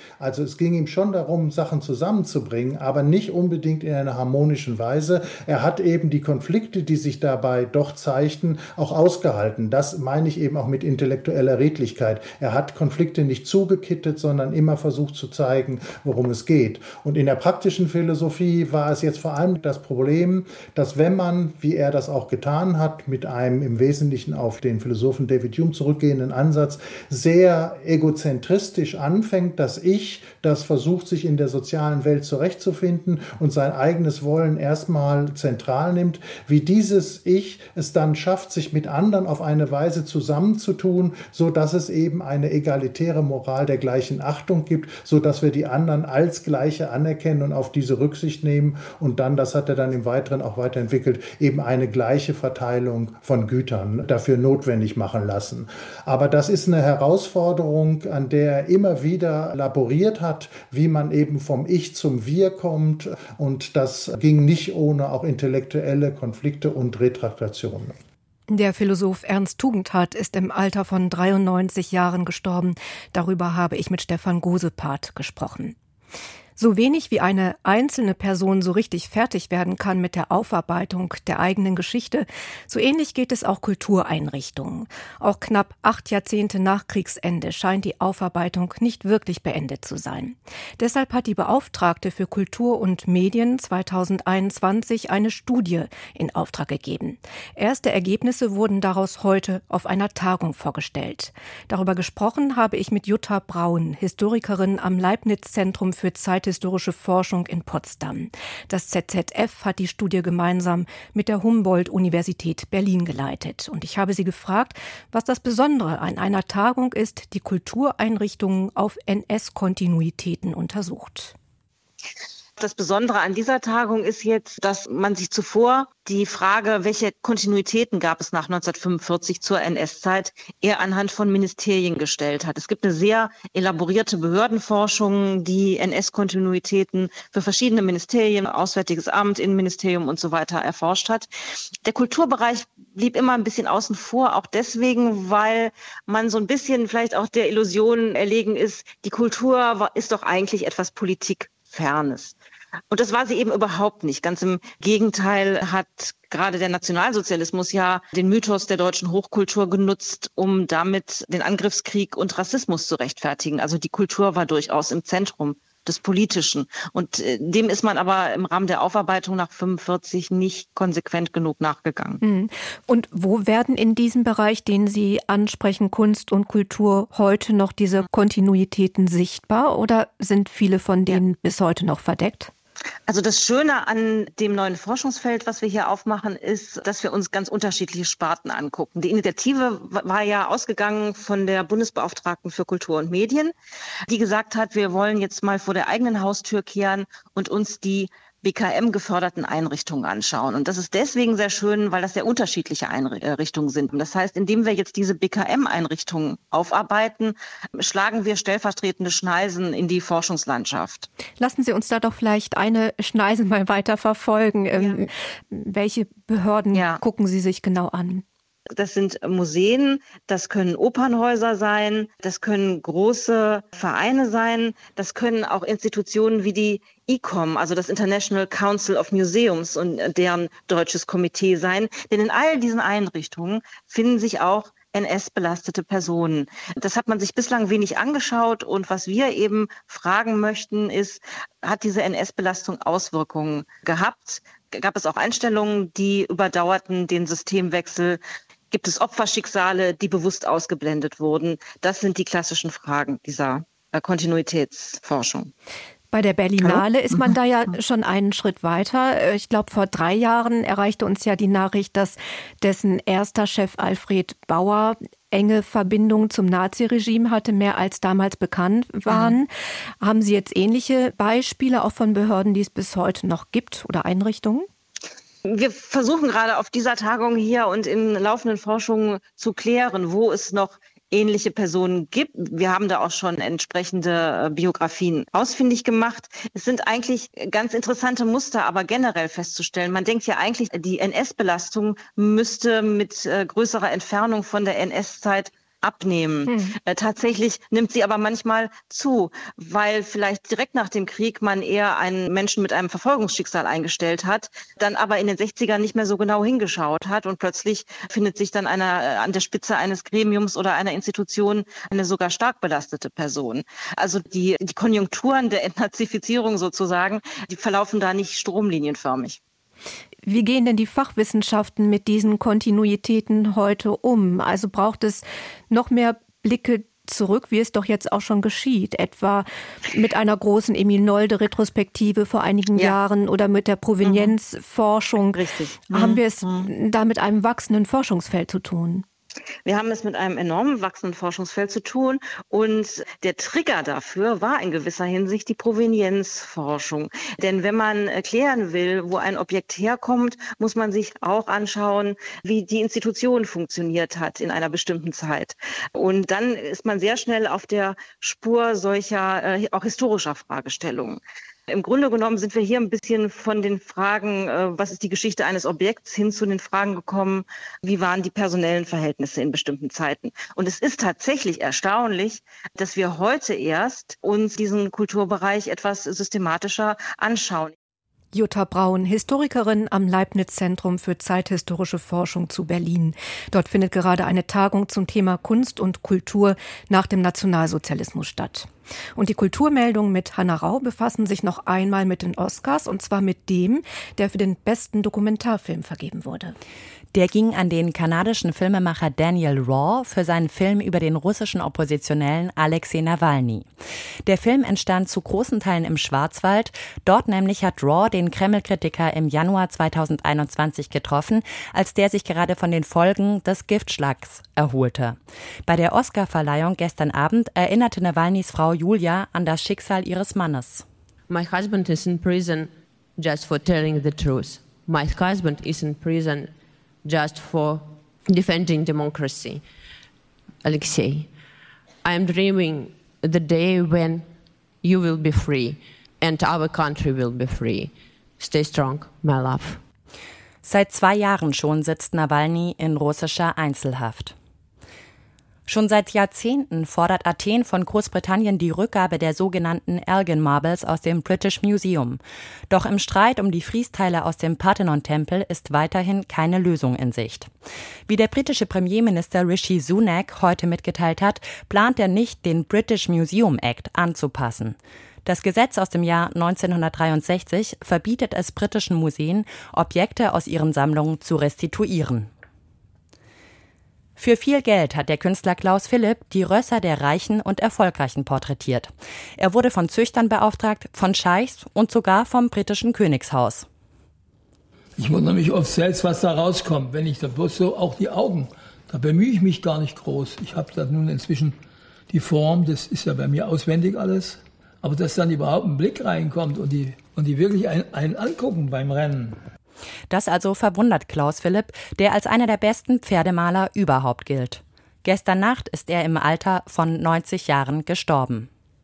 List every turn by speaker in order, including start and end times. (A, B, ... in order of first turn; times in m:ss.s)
0:00.2-1:08.0 A
1:08.5-1:15.8 B
1:16.6-2:01.4 B
2:02.6-2:21.3 C
2:21.8-2:32.4 C
2:32.9-2:52.2 C
2:52.2-3:02.5 B
3:03.1-3:13.5 C
3:14.1-3:31.1 C
3:31.4-3:38.2 B
3:34.8-3:35.1 C
3:36.7-3:37.0 C
3:38.8-4:15.5 C
4:16.1-4:29.5 B
4:16.6-4:17.4 C
4:29.1-4:29.4 C
4:30.0-4:34.7 B
4:35.5-5:19.4 C
4:56.5-4:56.8 B
5:20.2-5:39.0 B
5:34.0-5:34.3 C
5:35.3-5:36.7 C
5:39.6-6:17.7 C
6:18.3-6:36.6 B
6:37.1-6:43.7 D
6:44.2-7:00.8 D
7:01.3-7:06.5 E
7:07.0-7:09.6 E
7:10.6-7:11.3 E
7:12.0-7:14.3 E
7:14.8-7:19.8 E
7:20.6-7:24.4 D
7:25.7-7:37.5 D
7:38.1-7:52.3 D
7:54.2-8:03.7 D
8:05.0-8:11.6 F
8:12.1-8:19.4 F
8:20.1-8:28.5 D